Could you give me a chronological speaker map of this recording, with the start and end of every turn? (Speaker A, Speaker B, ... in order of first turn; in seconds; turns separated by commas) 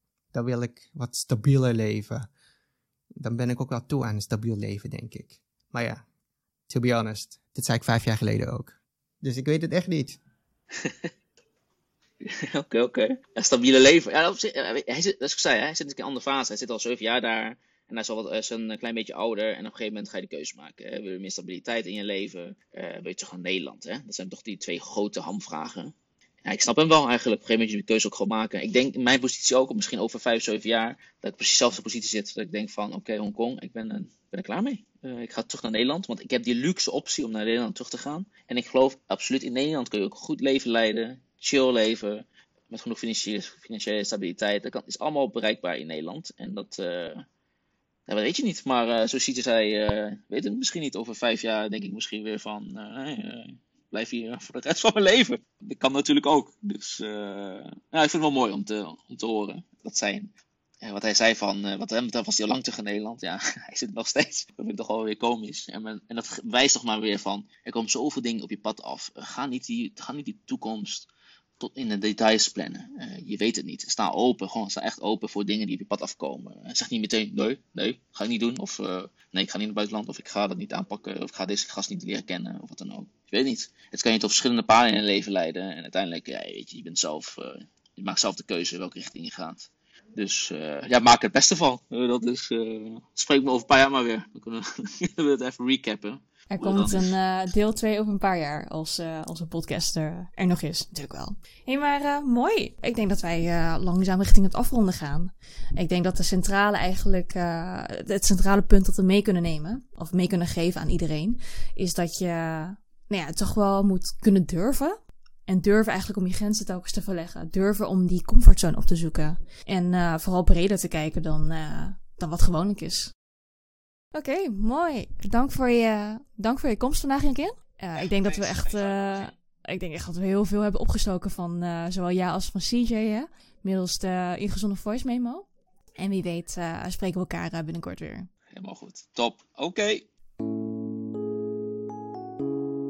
Speaker A: 0.3-2.3, Speaker A: 3.2-6.0, Speaker A: 6.7-10.2, Speaker B: 10.8-11.1, Speaker B: 12.2-25.9, Speaker B: 26.4-47.2, Speaker B: 48.1-71.1, Speaker B: 71.6-97.1, Speaker C: 96.5-123.1, Speaker C: 124.1-135.4, Speaker B: 128.0-129.3, Speaker C: 136.0-138.3, Speaker B: 138.5-140.1